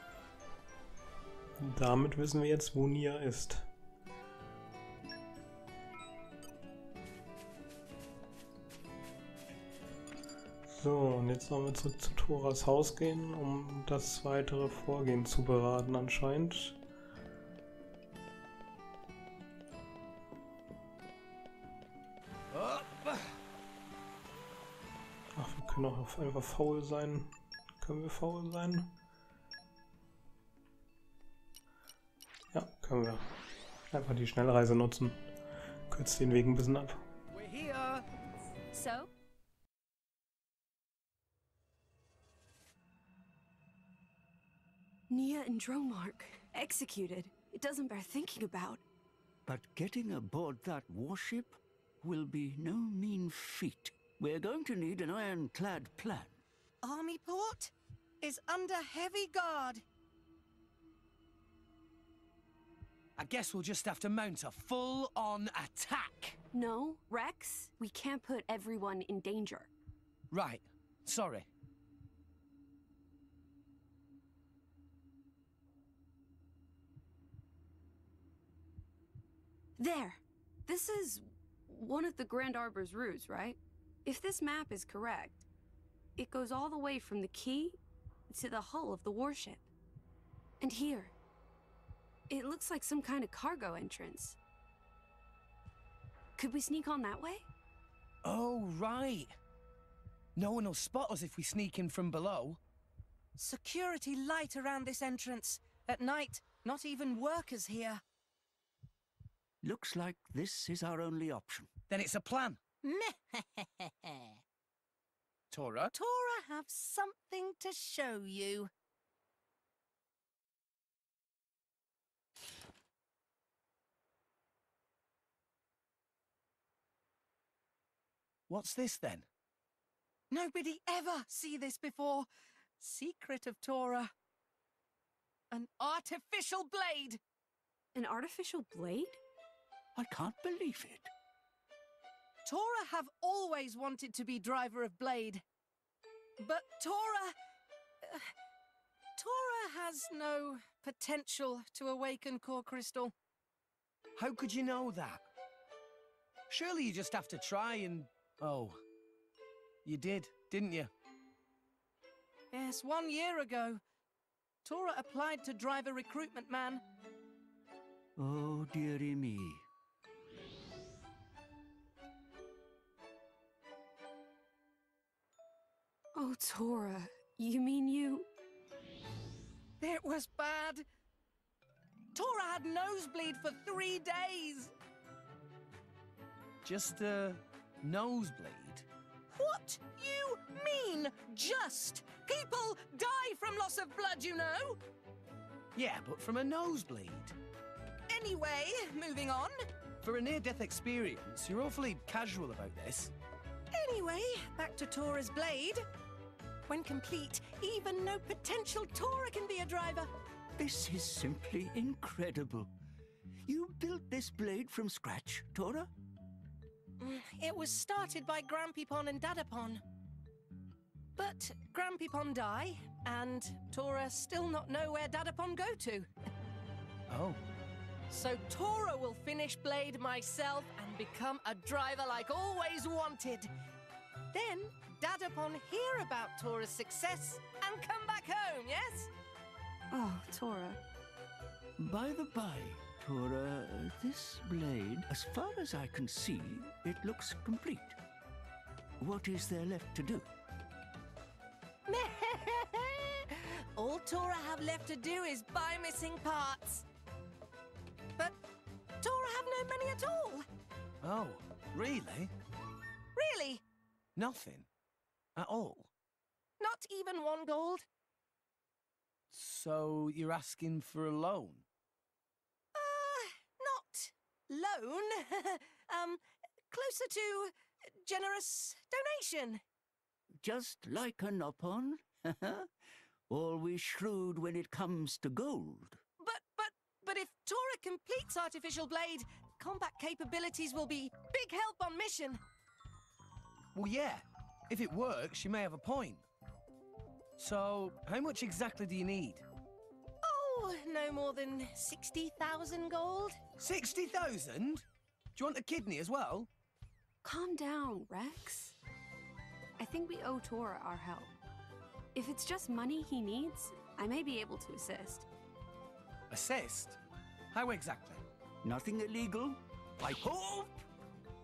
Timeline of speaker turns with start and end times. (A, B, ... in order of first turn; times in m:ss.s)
0:01.6-0:03.7 A
0:10.8-0:16.8 A
0:22.5-0:23.4 B
0:25.4-0:28.9 A
0:32.5-0:33.3 A
0:33.9-0:35.2 A
0:35.9-0:37.0 A
0:37.3-0:38.0 B
0:38.7-0:39.1 C
0:45.1-0:48.8 C
0:49.5-0:56.4 D
0:56.8-0:59.8 E
1:03.2-1:06.4 B
1:06.5-1:09.7 C
1:10.3-1:11.5 B
1:19.8-1:25.5 C
1:26.2-1:27.8 C
1:28.3-1:29.7 C
1:30.6-1:31.1 C
1:32.3-1:34.4 C
1:36.4-1:37.5 C
1:38.2-1:39.3 B
1:40.4-1:42.6 B
1:43.4-1:48.0 E
1:49.6-1:51.7 D
1:51.9-1:52.6 B
1:52.8-1:54.1 E
1:55.5-1:55.9 B
1:55.9-1:58.7 E
2:08.5-2:09.3 B
2:10.3-2:14.1 E
2:15.5-2:17.2 E
2:17.9-2:19.2 C
2:20.0-2:21.1 D
2:22.4-2:25.4 E
2:26.4-2:27.4 E
2:28.0-2:28.3 E
2:29.2-2:33.1 E
2:34.2-2:35.2 B
2:36.5-2:38.8 B
2:39.8-2:40.9 B
2:42.5-2:43.8 E
2:44.6-2:46.8 E
2:48.2-2:49.6 D
2:56.2-2:58.3 C
2:59.8-3:00.9 E
3:02.2-3:04.7 E
3:06.6-3:08.9 B
3:09.3-3:14.8 E
3:15.8-3:17.4 B
3:18.1-3:19.6 E
3:20.0-3:23.1 B
3:23.7-3:25.8 E
3:26.7-3:30.1 E
3:30.6-3:32.7 D
3:33.5-3:35.9 D
3:37.0-3:39.8 E
3:41.2-3:46.1 E
3:47.1-3:47.4 B
3:48.1-3:53.5 E
3:54.3-3:59.1 E
3:59.9-4:00.8 C
4:01.8-4:08.0 D
4:09.0-4:10.3 D
4:11.9-4:16.9 E
4:19.0-4:20.4 E
4:21.0-4:22.3 B
4:23.2-4:23.6 E
4:24.2-4:24.7 B
4:25.4-4:25.9 B
4:26.6-4:27.9 E
4:29.3-4:31.6 B
4:32.8-4:39.6 E
4:40.4-4:42.7 D
4:43.3-4:46.0 D
4:46.2-4:52.4 E
4:53.8-4:56.2 B
4:57.4-4:59.4 B
5:00.2-5:03.4 E
5:03.6-5:06.5 B
5:07.2-5:08.8 C
5:09.8-5:11.3 C
5:12.2-5:15.3 C
5:16.3-5:17.0 B
5:17.5-5:18.2 B
5:18.6-5:20.8 D